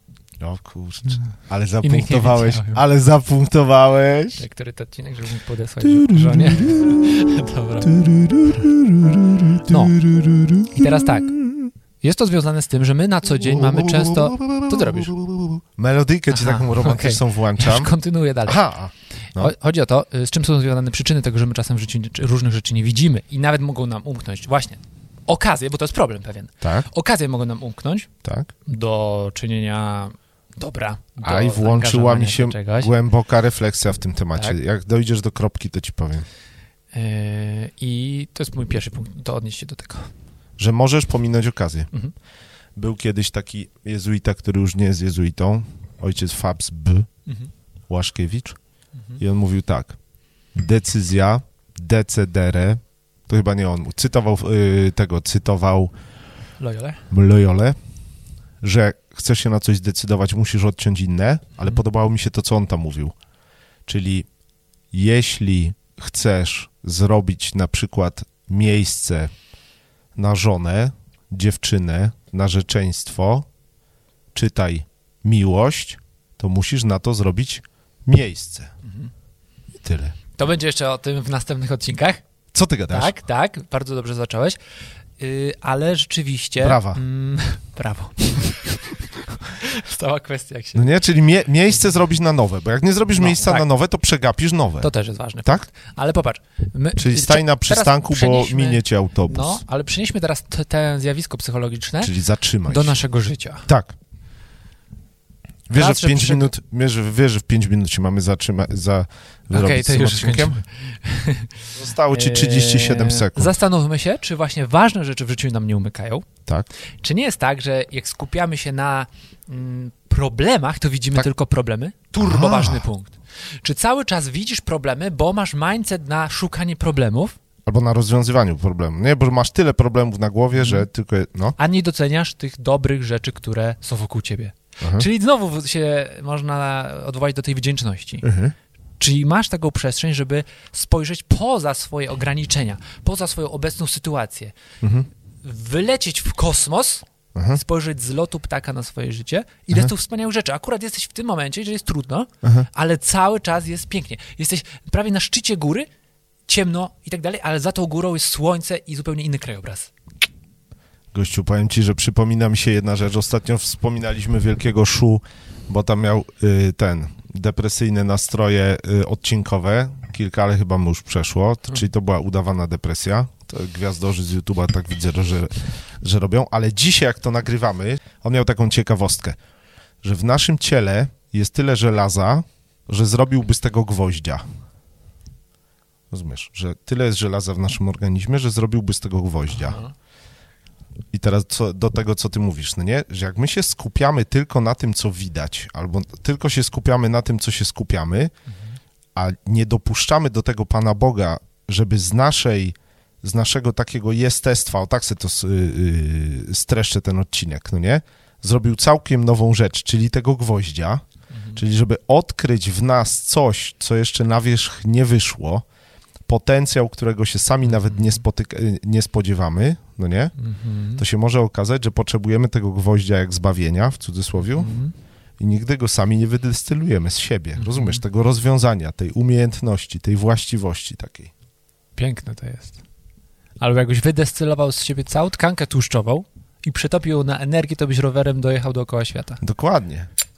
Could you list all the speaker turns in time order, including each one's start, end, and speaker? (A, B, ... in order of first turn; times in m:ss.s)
0:00.4-0:04.4 A
0:01.8-0:02.8 B
0:04.4-0:08.1 B
0:05.8-0:07.0 A
0:07.8-0:11.7 A
0:09.6-0:10.0 B
0:10.7-0:11.4 B
0:12.0-0:15.1 B
0:13.4-0:17.9 A
0:16.3-0:18.6 B
0:18.4-0:19.5 A
0:19.4-0:28.1 B
0:26.6-0:26.9 A
0:28.2-0:28.5 A
0:28.6-0:32.9 B
0:31.2-0:36.3 A
0:36.9-0:40.1 B
0:40.6-0:41.9 A
0:42.8-0:47.1 A
0:47.9-0:48.6 A
0:49.2-0:50.0 A
0:50.6-0:55.9 A
0:56.6-0:57.0 B
0:57.1-0:57.8 A
0:58.6-1:03.1 A
1:03.9-1:04.3 A
1:04.9-1:09.3 A
1:10.2-1:13.5 A
1:14.3-1:18.7 A
1:18.8-1:19.1 B
1:19.8-1:20.2 A
1:20.4-1:22.2 B
1:22.5-1:23.1 A
1:22.9-1:24.6 B
1:25.2-1:30.9 B
1:26.6-1:27.0 A
1:30.8-1:34.9 A
1:33.2-1:33.6 B
1:34.8-1:42.1 B
1:37.0-1:39.6 A
1:42.0-1:43.0 A
1:42.7-1:43.7 B
1:43.7-1:44.0 A
1:45.7-1:50.6 A
1:45.7-1:46.5 B
1:49.5-1:51.5 B
1:51.8-1:53.5 A
1:52.1-1:56.3 B
1:57.0-2:07.4 B
2:02.2-2:02.9 A
2:07.7-2:11.6 A
2:10.6-2:10.8 B
2:11.6-2:18.3 B
2:14.8-2:15.1 A
2:18.2-2:18.5 A
2:19.0-2:24.5 B
2:24.8-2:25.1 A
2:25.4-2:35.9 B
2:27.3-2:27.6 A
2:32.4-2:32.7 A
2:36.5-2:39.9 B
2:41.1-2:59.4 A
3:00.0-3:04.4 A
3:06.1-3:09.8 A
3:09.5-3:09.9 B
3:11.1-3:18.3 A
3:19.2-3:31.0 A
3:31.3-3:31.6 B
3:31.5-3:35.6 A
3:36.3-3:40.3 A
3:37.7-3:38.2 B
3:40.4-3:41.0 B
3:41.0-3:44.7 A
3:44.5-3:44.9 B
3:45.4-3:51.3 A
3:47.6-3:48.0 B
3:52.0-3:52.8 B
3:53.6-3:59.4 B
3:59.4-4:00.1 A